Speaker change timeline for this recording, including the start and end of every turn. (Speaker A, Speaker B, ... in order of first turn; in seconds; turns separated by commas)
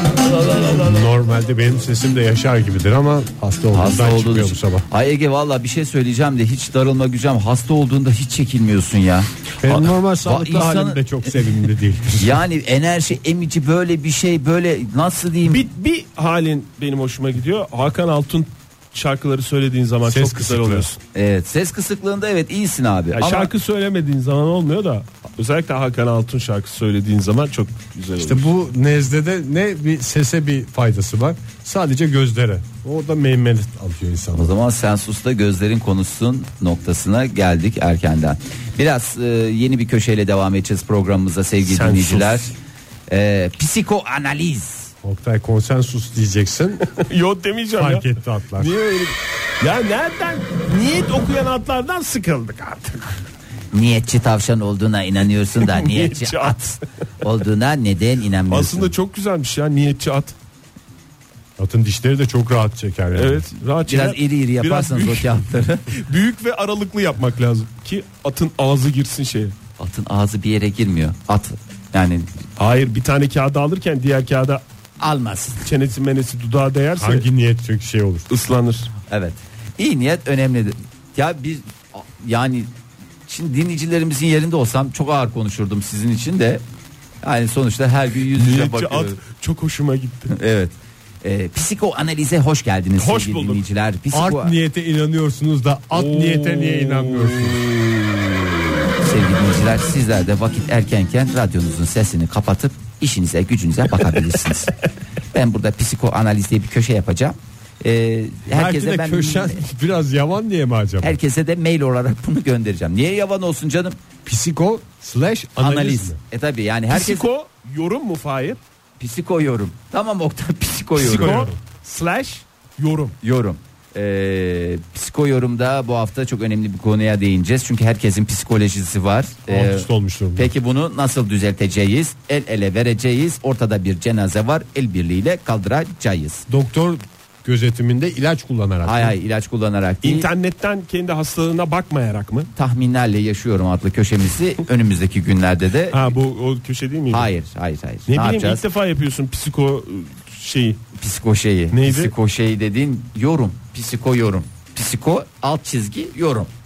Speaker A: 0.8-4.8, Speaker B: 3.7-11.3, Speaker A: 9.6-12.4, Speaker B: 12.2-15.6, Speaker C: 15.5-21.0, Speaker A: 20.1-20.9, Speaker B: 21.1-23.5, Speaker C: 23.1-28.5, Speaker A: 28.2-34.5, Speaker B: 34.3-42.5, Speaker C: 41.6-42.5, Speaker B: 43.1-44.9, Speaker A: 45.0-46.9, Speaker C: 46.9-48.0, Speaker A: 47.8-48.7, Speaker C: 48.6-53.1, Speaker B: 53.7-58.9, Speaker C: 55.6-56.8, Speaker C: 58.5-60.3, Speaker A: 61.6-63.5, Speaker C: 63.1-69.5, Speaker B: 63.9-65.9, Speaker B: 69.8-72.3, Speaker C: 72.6-74.6, Speaker B: 75.0-75.6, Speaker C: 75.6-77.2, Speaker A: 77.0-78.3, Speaker C: 78.3-78.9, Speaker B: 79.1-82.7, Speaker B: 83.2-86.6, Speaker B: 87.2-89.2, Speaker C: 88.3-90.3, Speaker B: 90.3-94.5, Speaker C: 93.0-93.6, Speaker A: 94.1-97.7, Speaker C: 95.9-98.4, Speaker B: 99.0-104.7, Speaker B: 105.3-109.6, Speaker A: 108.5-111.2, Speaker B: 111.0-114.0, Speaker A: 114.2-116.2, Speaker B: 115.6-117.2, Speaker C: 116.9-118.6, Speaker B: 119.0-121.4, Speaker A: 121.0-121.5, Speaker C: 121.0-123.2, Speaker B: 123.2-136.4, Speaker A: 129.5-130.5, Speaker A: 136.5-139.1, Speaker B: 138.8-140.3, Speaker C: 140.0-142.5, Speaker B: 142.6-146.1, Speaker C: 145.9-147.3, Speaker B: 147.1-148.6, Speaker C: 148.1-150.8, Speaker B: 151.0-156.5, Speaker C: 151.7-152.1